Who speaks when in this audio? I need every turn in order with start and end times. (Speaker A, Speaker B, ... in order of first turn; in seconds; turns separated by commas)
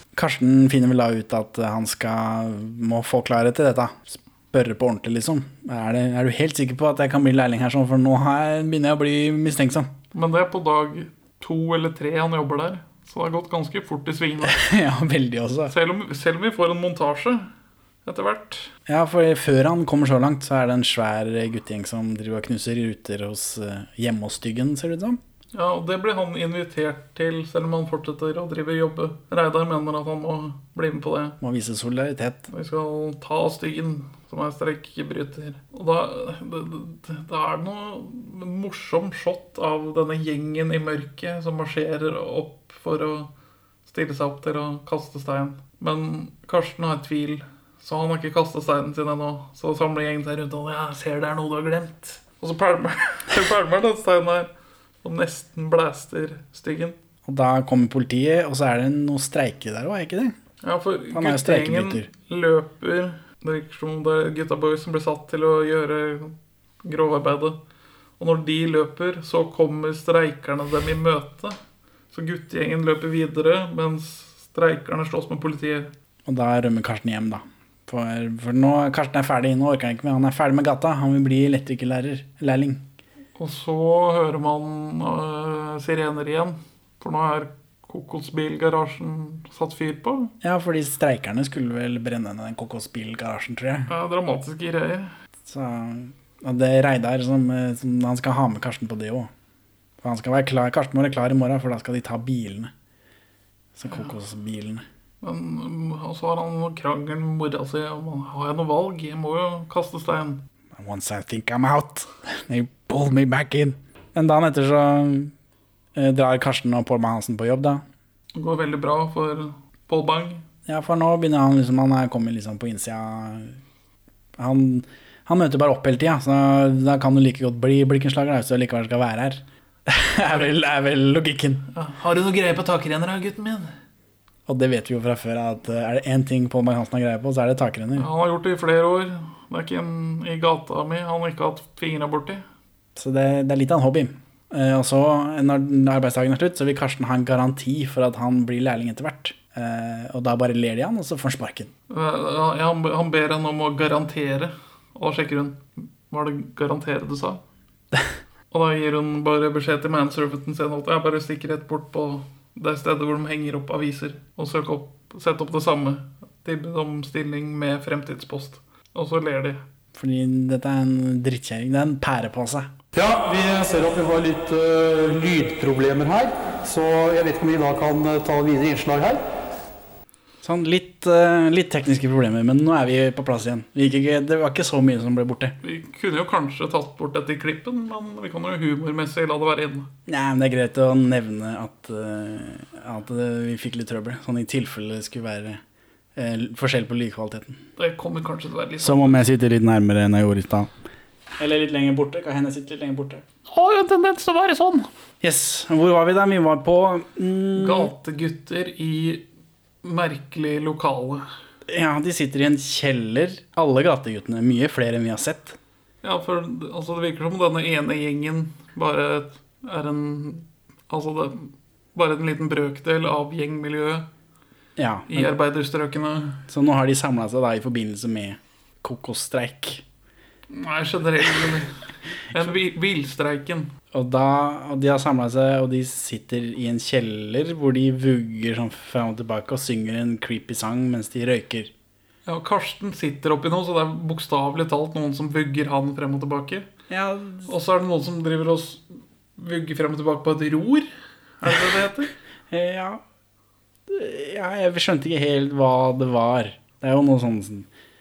Speaker A: 0.1-9.9, Speaker B: 10.1-14.6, Speaker A: 14.4-15.7, Speaker B: 15.7-17.5, Speaker B: 18.0-18.7, Speaker A: 18.9-25.2, Speaker B: 25.5-31.4, Speaker A: 31.4-32.5, Speaker B: 32.5-43.3, Speaker B: 43.9-54.5, Speaker B: 55.0-57.0, Speaker A: 57.2-60.3, Speaker B: 60.6-67.6, Speaker A: 61.1-62.1, Speaker B: 68.2-71.6, Speaker B: 72.1-75.9, Speaker A: 76.2-82.8, Speaker B: 83.3-90.3, Speaker A: 90.4-93.9, Speaker B: 93.9-95.1, Speaker A: 95.5-99.3, Speaker A: 100.0-102.7, Speaker A: 103.8-104.8, Speaker B: 105.2-110.4, Speaker A: 110.7-115.3, Speaker A: 115.9-117.8, Speaker B: 118.3-120.4, Speaker A: 120.7-123.6, Speaker A: 124.4-131.7, Speaker B: 131.7-133.7, Speaker A: 134.5-138.1, Speaker B: 138.0-142.4, Speaker A: 142.9-151.7, Speaker B: 151.9-157.4, Speaker B: 158.5-169.6, Speaker A: 169.9-172.7, Speaker C: 172.9-179.2, Speaker A: 180.4-185.6, Speaker B: 185.6-189.9, Speaker A: 190.1-195.6, Speaker A: 196.2-197.6, Speaker B: 197.8-199.2, Speaker A: 198.8-200.7, Speaker A: 201.4-203.2, Speaker B: 203.5-204.9, Speaker A: 205.2-207.9, Speaker B: 207.6-209.2, Speaker B: 209.8-211.2, Speaker A: 211.7-215.6, Speaker B: 216.0-224.1, Speaker A: 224.8-225.3, Speaker B: 225.1-226.4, Speaker A: 226.5-229.8, Speaker B: 230.5-231.7, Speaker B: 232.3-233.7, Speaker A: 233.9-241.7, Speaker B: 242.2-246.7, Speaker A: 246.9-247.5, Speaker B: 247.5-248.8, Speaker B: 249.4-250.9, Speaker B: 251.4-252.1, Speaker A: 252.5-253.0, Speaker A: 253.9-257.7